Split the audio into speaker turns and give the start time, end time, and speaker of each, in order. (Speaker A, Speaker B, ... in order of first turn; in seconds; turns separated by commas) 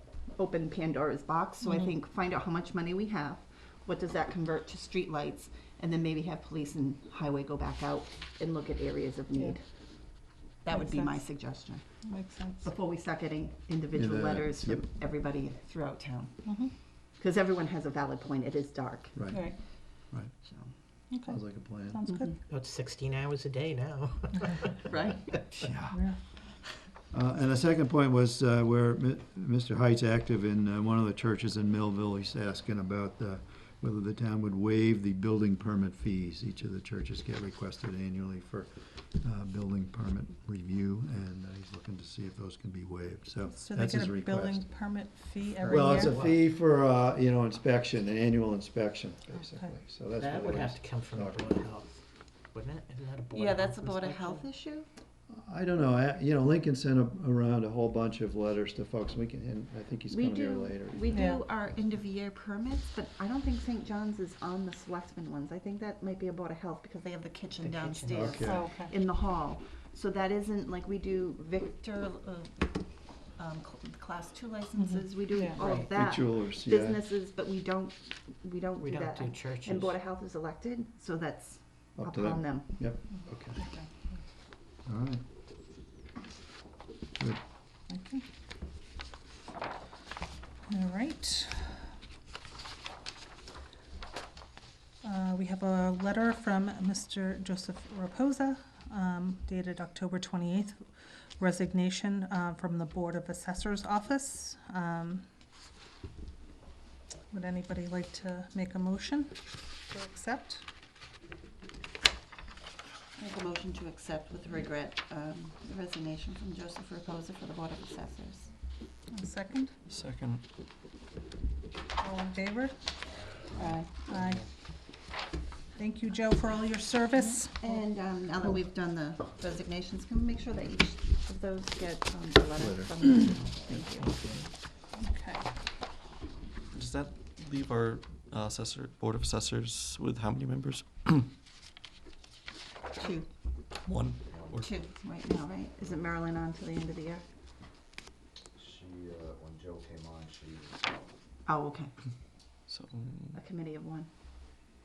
Speaker A: 0.3-9.6, Speaker B: 1.6-1.9, Speaker A: 10.2-11.9, Speaker B: 10.7-11.2, Speaker B: 12.0-12.7, Speaker A: 12.6-16.5, Speaker C: 13.9-14.9, Speaker B: 16.4-16.7, Speaker A: 17.1-19.5, Speaker C: 19.1-20.3, Speaker A: 20.4-20.7, Speaker B: 21.1-22.4, Speaker C: 21.3-22.0, Speaker D: 22.5-24.8, Speaker A: 24.8-25.7, Speaker C: 25.6-26.0, Speaker B: 25.9-26.2, Speaker C: 27.1-44.6, Speaker B: 43.5-46.2, Speaker D: 45.4-46.4, Speaker C: 45.6-51.5, Speaker D: 50.2-54.4, Speaker A: 53.3-54.9, Speaker C: 55.3-61.1, Speaker A: 60.1-82.8, Speaker B: 61.1-61.4, Speaker D: 67.6-68.4, Speaker C: 68.1-68.7, Speaker B: 68.4-68.9, Speaker B: 74.8-75.6, Speaker D: 75.5-75.9, Speaker C: 75.7-77.0, Speaker D: 78.8-80.0, Speaker C: 82.0-83.6, Speaker B: 83.6-83.9, Speaker C: 84.8-85.2, Speaker B: 87.9-88.2, Speaker B: 90.7-91.8, Speaker B: 95.0-100.8, Speaker B: 101.4-105.2, Speaker B: 107.3-110.6, Speaker A: 113.2-118.5, Speaker B: 119.1-119.7, Speaker E: 119.9-120.5, Speaker B: 122.0-122.7, Speaker A: 123.5-124.0, Speaker B: 124.0-124.5, Speaker E: 124.1-124.4, Speaker B: 125.7-127.8, Speaker A: 127.2-134.3, Speaker C: 132.6-132.9, Speaker E: 133.9-134.4, Speaker B: 134.9-135.5, Speaker E: 136.7-141.3, Speaker A: 142.9-143.3, Speaker E: 143.8-144.7, Speaker F: 144.3-144.6, Speaker A: 144.6-147.2, Speaker F: 148.5-151.1, Speaker A: 151.4-151.9, Speaker E: 152.7-153.3, Speaker A: 153.3-154.1